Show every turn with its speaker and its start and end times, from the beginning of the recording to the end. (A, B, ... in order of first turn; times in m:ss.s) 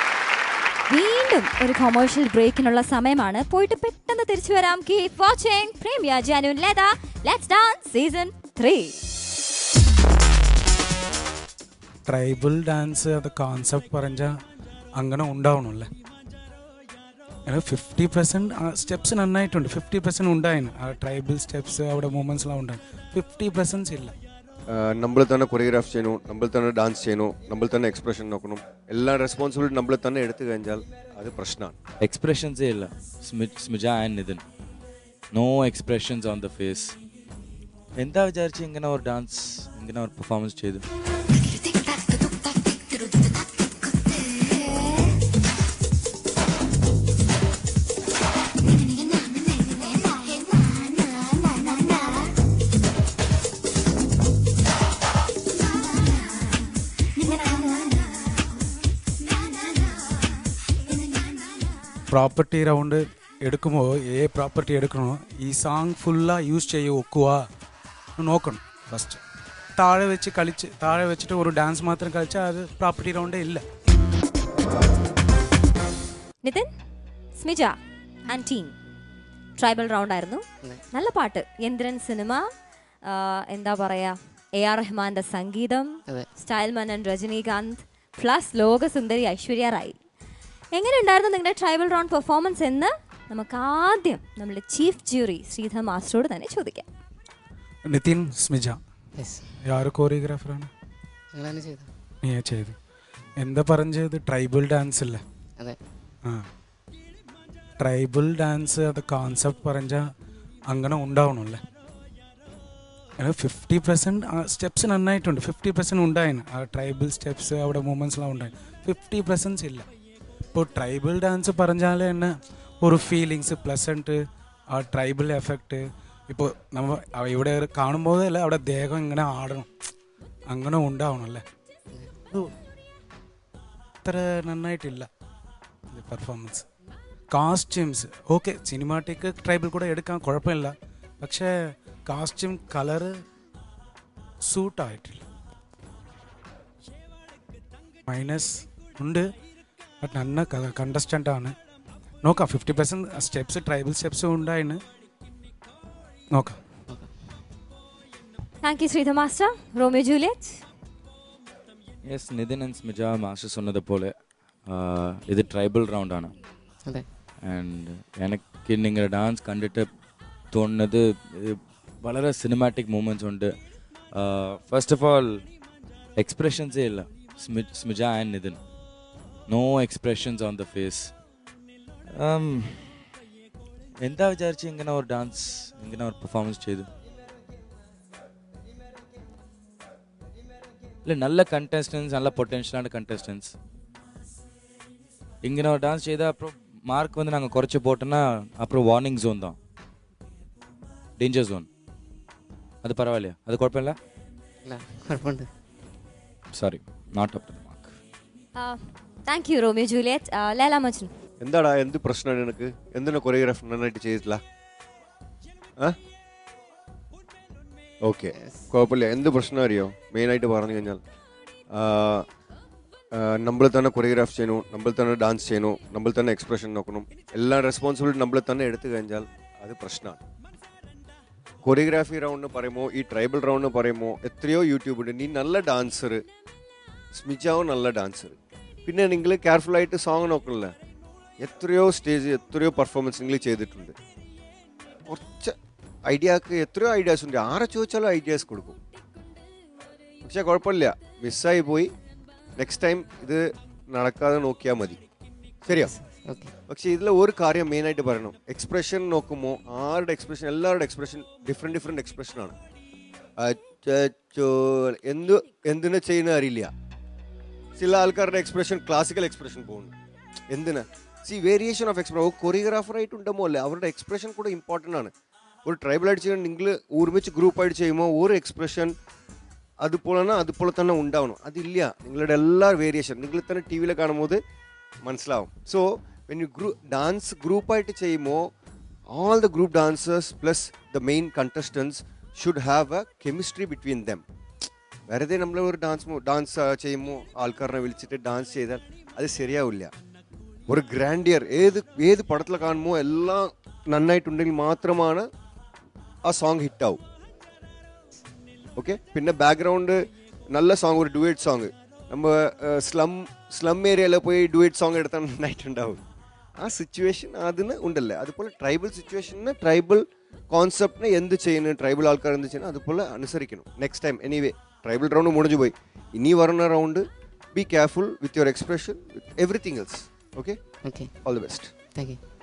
0:00.9-0:09.0 A
0:12.1-0:14.4 B
0:15.0-0:15.9 B
0:17.5-0:24.2 B
0:24.7-0:31.8 C
0:32.0-0:34.4 D
0:35.3-0:37.0 D
0:38.0-0:40.8 D
1:02.1-1:07.5 B
1:08.2-1:09.2 B
1:09.8-1:13.6 B
1:17.4-1:18.8 A
1:19.6-1:22.4 A
1:23.0-1:30.0 A
1:30.8-1:36.9 A
1:37.9-1:38.8 B
1:39.2-1:39.6 E
1:39.6-1:40.7 B
1:41.3-1:41.9 E
1:42.2-1:42.8 B
1:43.4-1:45.2 B
1:47.8-1:50.1 B
1:50.7-1:51.6 B
1:53.2-1:59.9 B
2:00.5-2:04.2 B
2:04.7-2:09.7 B
2:10.5-2:11.4 B
2:14.0-2:15.1 B
2:15.9-2:16.7 B
2:17.3-2:21.5 B
2:22.1-2:23.2 B
2:24.5-2:25.2 B
2:28.1-2:29.3 B
2:30.0-2:31.6 B
2:32.2-2:34.8 B
2:38.6-2:40.6 A
2:42.1-2:44.1 D
2:44.7-2:46.3 D
2:47.4-2:49.9 D
2:50.5-2:53.5 D
2:54.1-2:55.4 D
2:56.2-2:58.6 D
2:59.5-3:01.1 D
3:02.2-3:02.9 D
3:04.0-3:06.9 D
3:11.0-3:13.5 D
3:15.4-3:19.6 D
3:21.2-3:21.7 D
3:22.8-3:24.0 D
3:24.6-3:25.5 E
3:26.5-3:27.9 D
3:28.6-3:31.1 A
3:31.4-3:34.4 C
3:38.1-3:41.0 C
3:38.4-3:38.7 E
3:41.7-3:42.2 C
3:43.1-3:50.2 C
3:51.6-3:56.2 C
3:57.2-4:00.7 C
4:01.4-4:04.0 C
4:05.1-4:05.6 C
4:06.1-4:08.8 C
4:10.2-4:11.9 C
4:12.6-4:15.0 C
4:15.7-4:15.9 C
4:15.7-4:16.5 E
4:16.7-4:22.6 C
4:23.4-4:26.7 C
4:27.8-4:29.9 C
4:30.5-4:35.1 C
4:35.6-4:38.9 C
4:39.8-4:44.4 C
4:45.0-4:48.5 C
4:49.1-4:54.2 C
4:55.1-4:59.9 C
5:00.7-5:05.3 C
5:06.2-5:07.0 C
5:08.8-5:10.0 C
5:10.5-5:16.0 C
5:16.6-5:30.6 C
5:30.8-5:31.1 E
5:31.2-5:31.7 C
5:31.9-5:32.2 E